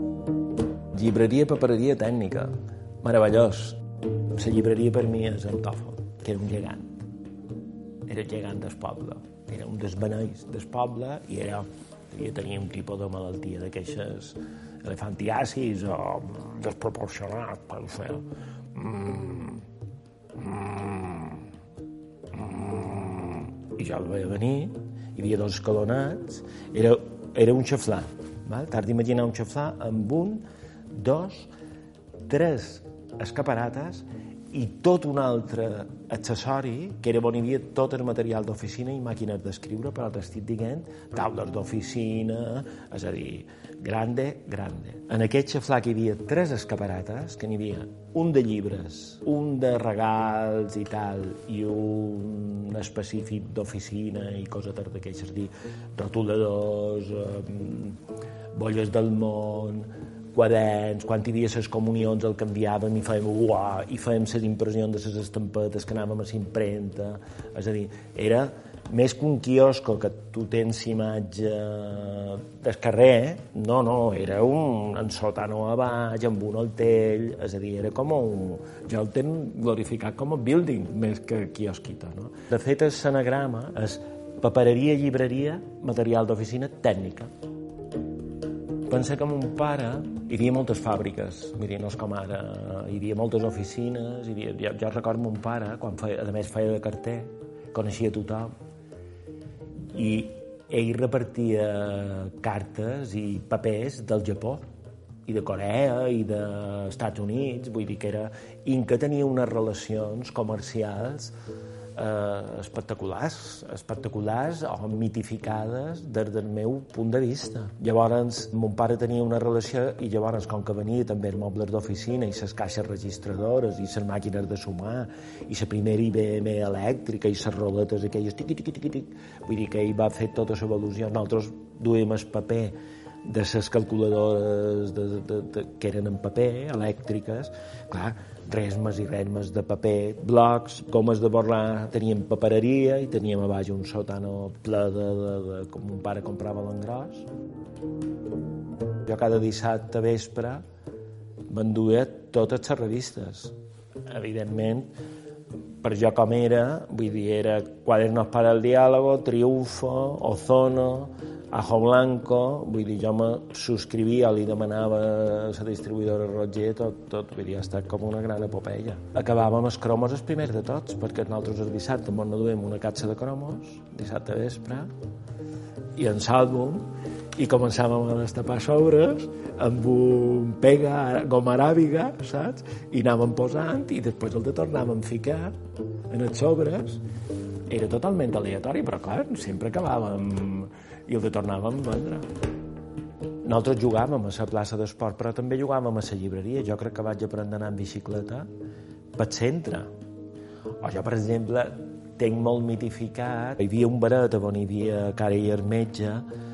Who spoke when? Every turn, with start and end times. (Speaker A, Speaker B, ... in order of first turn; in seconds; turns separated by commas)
Speaker A: 0.9-3.8, Speaker A: 4.4-7.1, Speaker A: 8.1-19.7, Speaker A: 20.4-21.5, Speaker A: 22.3-31.5, Speaker A: 32.3-58.0, Speaker A: 58.5-87.3, Speaker A: 88.9-98.5, Speaker A: 99.9-104.6, Speaker A: 105.3-111.3, Speaker A: 112.0-147.3, Speaker A: 149.0-150.6, Speaker A: 151.5-153.6, Speaker A: 154.1-154.9, Speaker A: 155.8-174.9, Speaker A: 176.0-185.5, Speaker A: 186.1-187.0, Speaker A: 187.7-192.3, Speaker A: 193.4-198.5, Speaker A: 199.2-199.9, Speaker A: 200.8-206.3